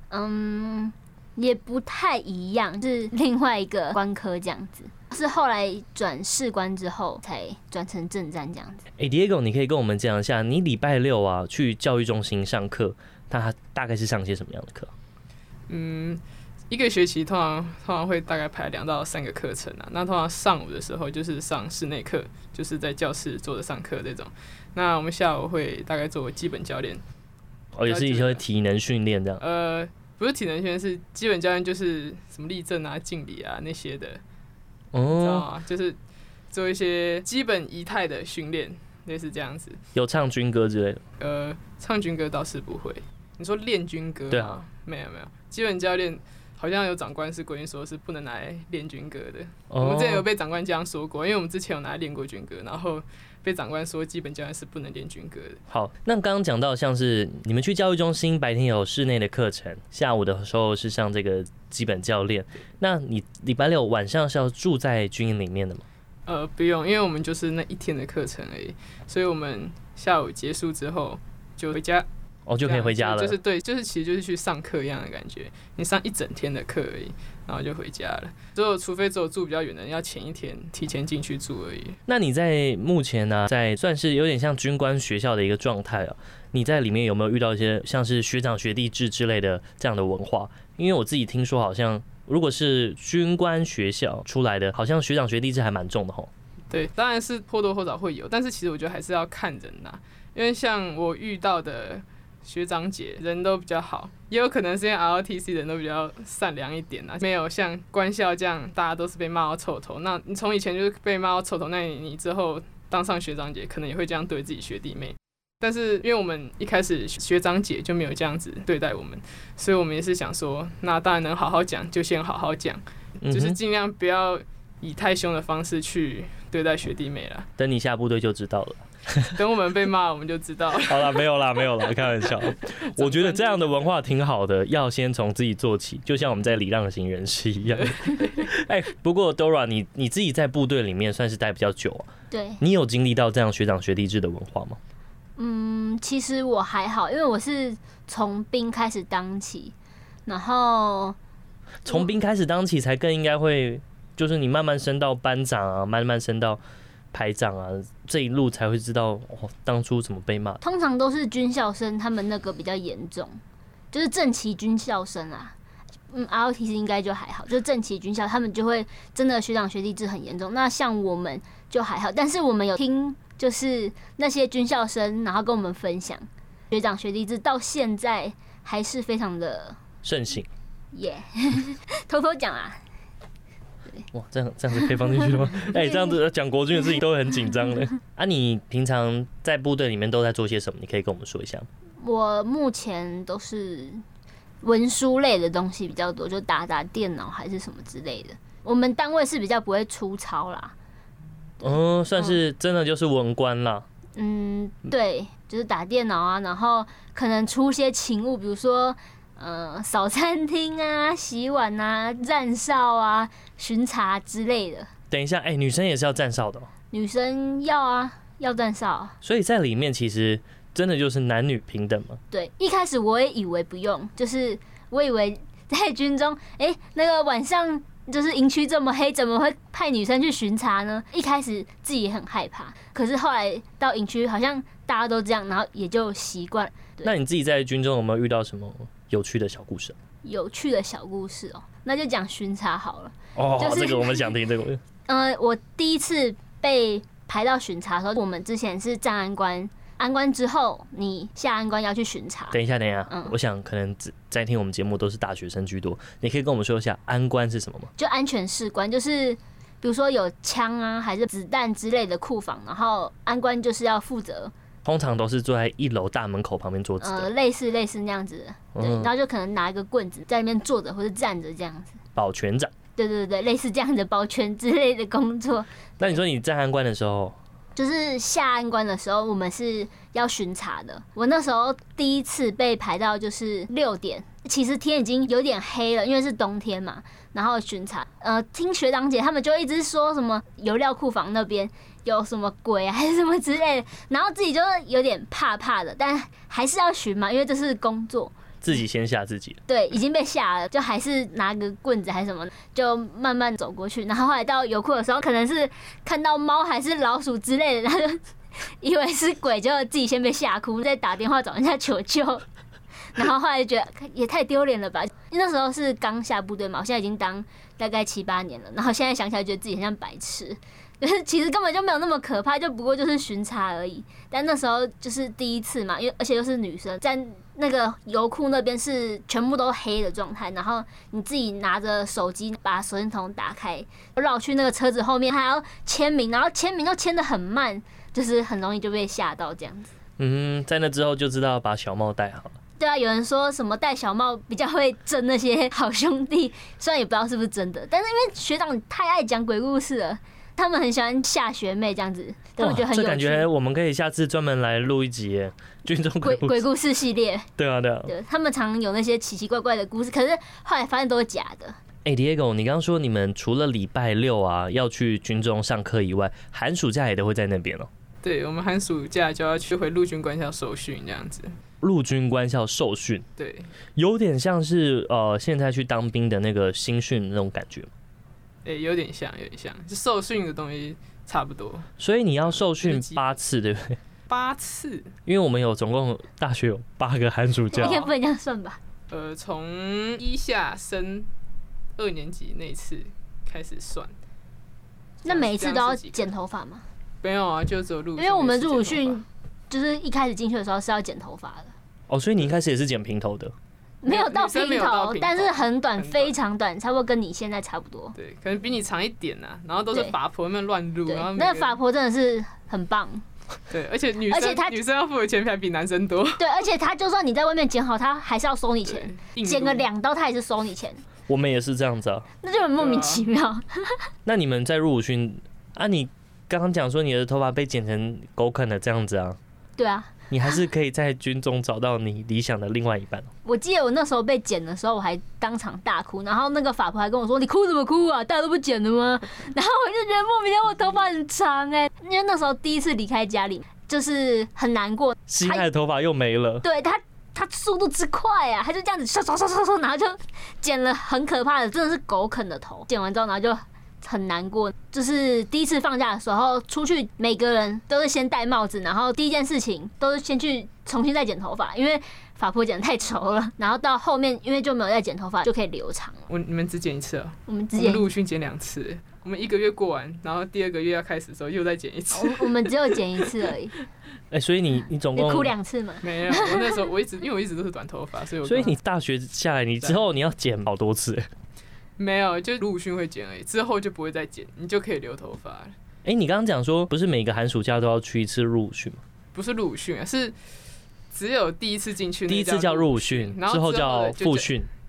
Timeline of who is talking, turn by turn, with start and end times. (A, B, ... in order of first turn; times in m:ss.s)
0:00.1-0:08.9 A
0:09.0-0:14.9 B
0:15.7-0:27.0 C
0:27.8-0:29.4 B
0:27.9-0:28.4 C
0:29.4-0:34.2 C
0:34.9-0:35.5 B
0:35.1-0:36.0 C
0:36.5-0:39.8 C
0:40.0-0:41.0 B
0:41.2-0:55.6 C
0:44.3-0:44.6 B
0:49.7-0:50.3 B
0:55.7-1:05.8 B
1:06.3-1:12.1 C
1:12.5-1:13.4 B
1:12.6-1:22.0 C
1:22.1-1:36.3 B
1:36.7-2:07.5 C
2:03.2-2:03.6 B
2:07.6-2:09.3 B
2:09.3-2:13.9 C
2:10.9-2:22.1 B
2:22.3-2:22.6 A
2:22.6-2:24.8 B
2:25.4-2:29.7 A
2:30.3-2:31.2 A
2:31.8-2:36.6 B
2:37.1-2:40.6 B
2:40.6-2:43.4 A
2:43.9-2:45.5 A
2:46.1-2:59.8 A
3:00.0-3:00.5 B
3:00.9-3:02.8 A
3:04.1-3:11.7 B
3:05.6-3:06.1 A
3:12.0-3:14.0 A
3:14.6-3:20.7 A
3:21.6-3:23.8 B
3:24.2-3:34.9 A
3:35.1-3:36.7 B
3:36.9-3:39.2 A
3:39.2-3:42.2 B
3:42.3-3:57.1 A
3:57.0-4:00.0 B
4:00.2-4:04.3 A
4:03.4-4:04.8 B
4:05.1-4:13.3 A
4:12.5-4:17.9 B
4:18.0-4:24.5 A
4:24.8-4:27.3 B
4:27.0-4:32.0 A
4:28.8-4:29.1 B
4:32.2-4:32.7 B
4:33.0-4:35.7 A
4:36.0-4:37.4 B
4:37.8-4:58.3 A
4:58.6-4:59.6 B
4:59.7-5:08.2 A
5:08.8-5:12.4 A
5:13.2-5:39.9 A
5:40.2-5:42.6 B
5:42.8-5:53.5 A
5:52.6-5:56.6 B
5:56.2-5:57.5 A
5:57.6-5:58.1 B
5:58.1-6:01.8 A
6:02.0-6:07.9 B
6:08.2-6:11.6 C
6:11.8-6:13.2 B
6:13.4-6:13.7 C
6:14.0-6:17.9 B
6:18.6-6:21.9 C
6:22.0-6:24.0 B
6:22.8-6:23.3 C
6:24.3-6:25.1 C
6:25.3-6:28.1 B
6:27.7-6:28.8 A
6:27.8-6:28.1 C
6:29.1-6:31.3 C
6:32.0-6:34.1 C
6:35.2-6:36.8 A
6:35.2-6:36.3 C
6:37.2-6:39.2 C
6:38.2-6:41.7 A
6:42.1-6:43.5 B
6:44.0-6:48.2 A
6:44.1-6:46.4 C
6:48.2-6:51.8 C
6:51.1-6:53.2 A
6:53.7-6:56.4 C
6:54.3-6:54.8 A
6:56.4-7:01.0 A
6:58.8-6:59.8 C
7:01.3-7:02.3 B
7:02.4-7:04.0 A
7:02.8-7:03.3 C
7:04.3-7:09.4 B
7:09.8-7:10.2 A
7:10.3-7:13.3 B
7:13.4-7:25.7 A
7:25.3-7:26.6 B
7:26.6-7:46.3 A
7:46.3-7:53.3 C
7:47.5-7:48.0 A
7:52.1-7:53.7 A
7:54.3-7:55.5 B
7:55.2-7:56.8 A
7:56.0-7:58.8 C
7:58.4-8:01.3 B
8:02.0-8:05.7 C
8:06.0-8:09.0 B
8:09.3-8:10.3 C
8:11.1-8:14.5 C
8:12.3-8:14.7 B